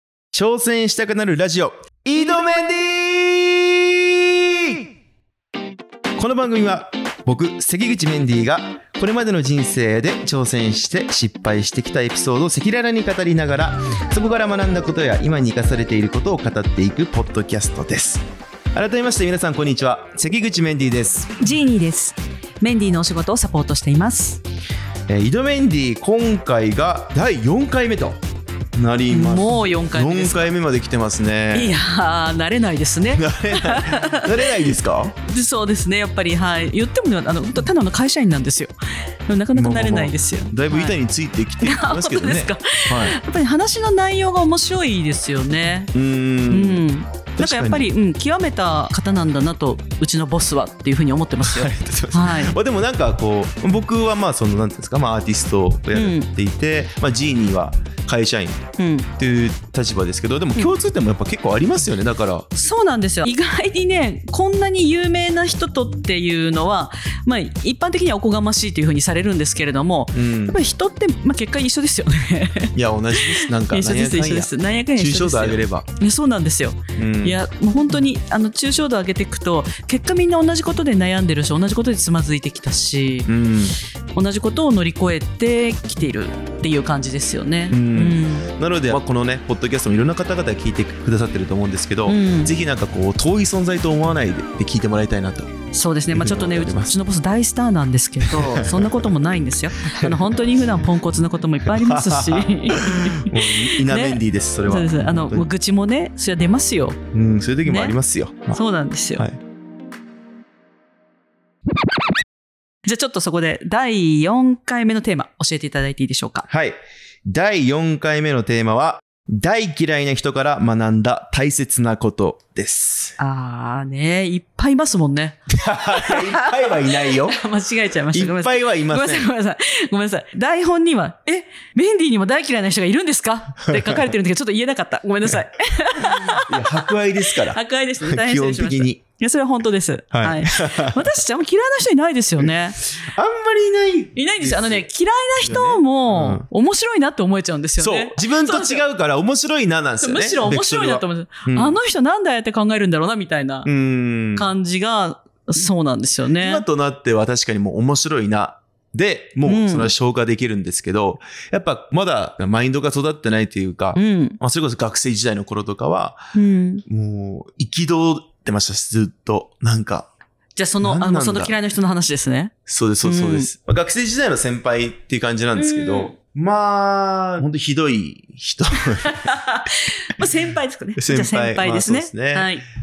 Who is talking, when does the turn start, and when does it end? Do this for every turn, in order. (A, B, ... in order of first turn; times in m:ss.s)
0:00.3-0:04.8 A
0:06.2-0:21.3 A
0:21.4-0:24.4 B
0:25.1-0:28.2 A
0:28.7-0:31.8 A
0:29.1-0:30.6 B
0:31.5-0:34.5 B
0:33.1-0:35.2 A
0:35.2-0:38.7 B
0:39.2-0:41.0 B
0:39.5-0:43.2 A
0:41.6-0:45.9 B
0:45.9-0:46.8 A
0:46.5-0:52.5 B
0:47.4-0:47.9 A
0:51.4-0:58.6 A
0:55.9-0:56.3 B
0:58.8-0:59.1 B
0:59.2-1:02.5 A
1:02.5-1:23.3 B
1:10.1-1:10.6 A
1:12.7-1:15.9 A
1:17.0-1:17.4 A
1:23.2-1:23.8 A
1:24.1-1:28.5 B
1:27.7-1:35.5 A
1:32.0-1:32.5 B
1:35.7-1:47.0 B
1:36.1-1:36.9 A
1:38.2-1:39.1 A
1:41.8-1:45.5 A
1:47.1-1:48.6 A
1:47.6-1:48.0 B
1:48.5-1:49.2 B
1:52.8-1:56.5 B
1:56.5-2:03.2 A
2:03.2-2:22.8 B
2:05.5-2:07.4 A
2:08.1-2:09.3 A
2:13.6-2:14.1 A
2:16.0-2:19.0 A
2:20.1-2:21.1 A
2:22.4-2:24.8 A
2:24.1-2:28.8 B
2:25.4-2:26.4 A
2:27.8-2:31.8 A
2:30.0-2:33.7 B
2:33.6-2:34.5 A
2:34.3-2:36.6 B
2:36.3-2:46.3 A
2:39.4-2:39.9 B
2:43.9-2:44.4 B
2:46.3-2:46.8 B
2:46.9-2:50.1 A
2:50.6-2:53.5 B
2:50.8-2:51.5 A
2:52.7-2:59.2 A
2:55.5-2:56.2 B
2:59.0-3:02.6 B
3:01.0-3:02.5 A